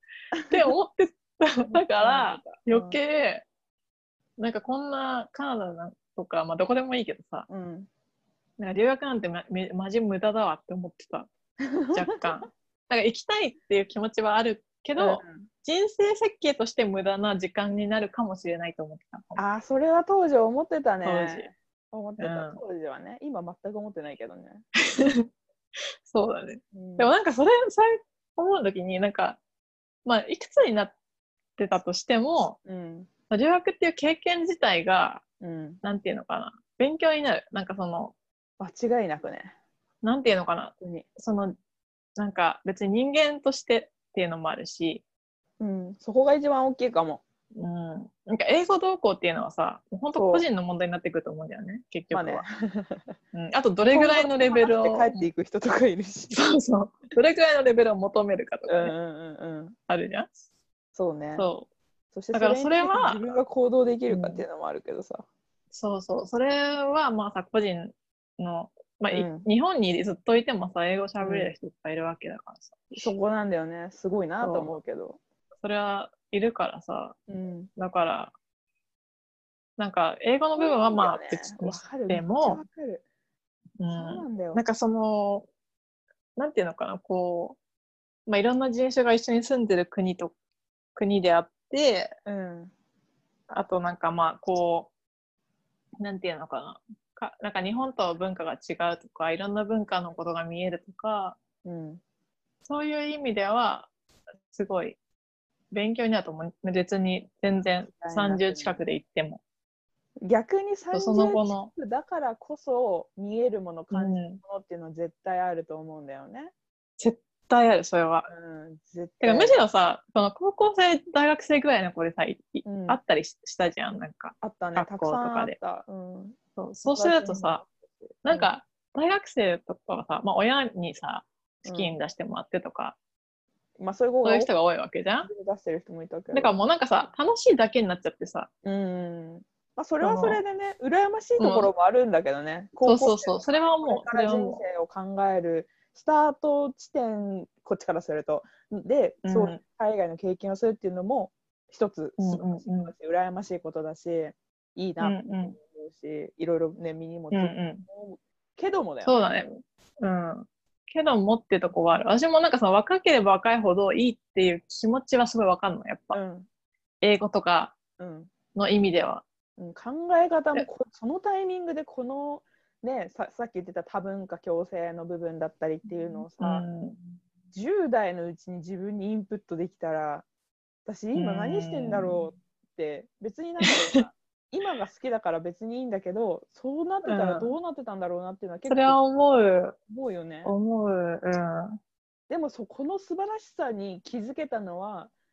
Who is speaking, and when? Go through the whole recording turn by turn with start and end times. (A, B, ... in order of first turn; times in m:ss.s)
0:00.3-0:00.7 A
0:00.5-0:03.4 B
0:01.7-0:03.0 A
0:04.4-0:07.5 B
0:07.5-0:07.9 A
0:08.6-0:11.3 B
0:11.7-0:12.4 A
0:11.9-0:19.4 B
0:15.0-0:15.5 A
0:19.4-0:24.6 A
0:21.0-0:21.5 B
0:22.2-0:22.6 B
0:24.9-0:25.3 B
0:26.0-0:29.4 B
0:26.7-0:27.2 A
0:30.0-0:30.9 B
0:31.6-0:32.6 B
0:32.7-0:33.1 A
0:33.3-0:35.2 B
0:35.4-0:35.8 A
0:35.8-0:38.2 B
0:38.6-0:39.5 A
0:40.0-0:41.6 B
0:40.8-0:41.1 A
0:42.2-0:45.0 B
0:45.6-0:47.2 A
0:47.6-0:52.4 B
0:50.2-0:50.5 A
0:52.1-0:53.2 A
0:53.3-0:55.3 B
0:53.9-0:56.6 A
0:56.3-0:58.9 B
0:58.7-0:59.8 A
0:59.9-1:00.3 B
1:01.0-1:01.5 A
1:01.4-1:01.7 B
1:02.1-1:05.2 A
1:02.3-1:03.3 B
1:04.1-1:04.4 B
1:05.7-1:13.0 B
1:09.1-1:09.5 A
1:11.2-1:11.5 A
1:13.0-1:15.2 A
1:14.4-1:14.7 B
1:15.6-1:17.2 B
1:17.3-1:17.7 A
1:17.8-1:18.3 B
1:19.8-1:22.6 B
1:20.6-1:23.0 A
1:23.8-1:25.5 B
1:23.9-1:24.6 A
1:26.4-1:27.6 B
1:28.3-1:30.3 B
1:31.0-1:32.2 B
1:32.3-1:32.7 A
1:33.5-1:34.9 B
1:36.0-1:41.4 B
1:41.6-1:42.0 A
1:42.7-1:43.9 B
1:44.5-1:45.0 B
1:45.7-1:49.4 B
1:47.9-1:48.8 A
1:50.2-1:56.5 A
1:50.9-1:51.7 B
1:53.9-1:54.4 B
1:57.0-1:58.3 B
1:58.3-1:59.6 A
1:59.2-2:05.6 B
2:02.6-2:03.0 A
2:04.4-2:08.5 A
2:06.6-2:07.6 B
2:08.2-2:13.0 B
2:11.6-2:12.0 A
2:13.8-2:14.5 A
2:14.2-2:15.3 B
2:15.2-2:16.5 A
2:16.3-2:18.5 B
2:18.6-2:39.2 A
2:20.0-2:20.4 B
2:21.4-2:21.7 B
2:22.8-2:24.6 B
2:29.2-2:29.6 B
2:32.2-2:32.9 B
2:35.0-2:35.6 B
2:37.3-2:37.8 B
2:39.0-2:46.2 B
2:46.1-2:46.5 A
2:47.0-2:47.8 B
2:48.0-2:48.3 A
2:48.6-2:49.2 B
2:49.6-2:56.6 A
2:55.9-2:57.0 B
2:57.5-3:00.3 A
3:00.9-3:09.0 A
3:01.2-3:02.3 B
3:07.0-3:07.5 B
3:08.7-3:09.8 B
3:09.9-3:10.5 A
3:10.4-3:11.8 B
3:12.3-3:15.1 A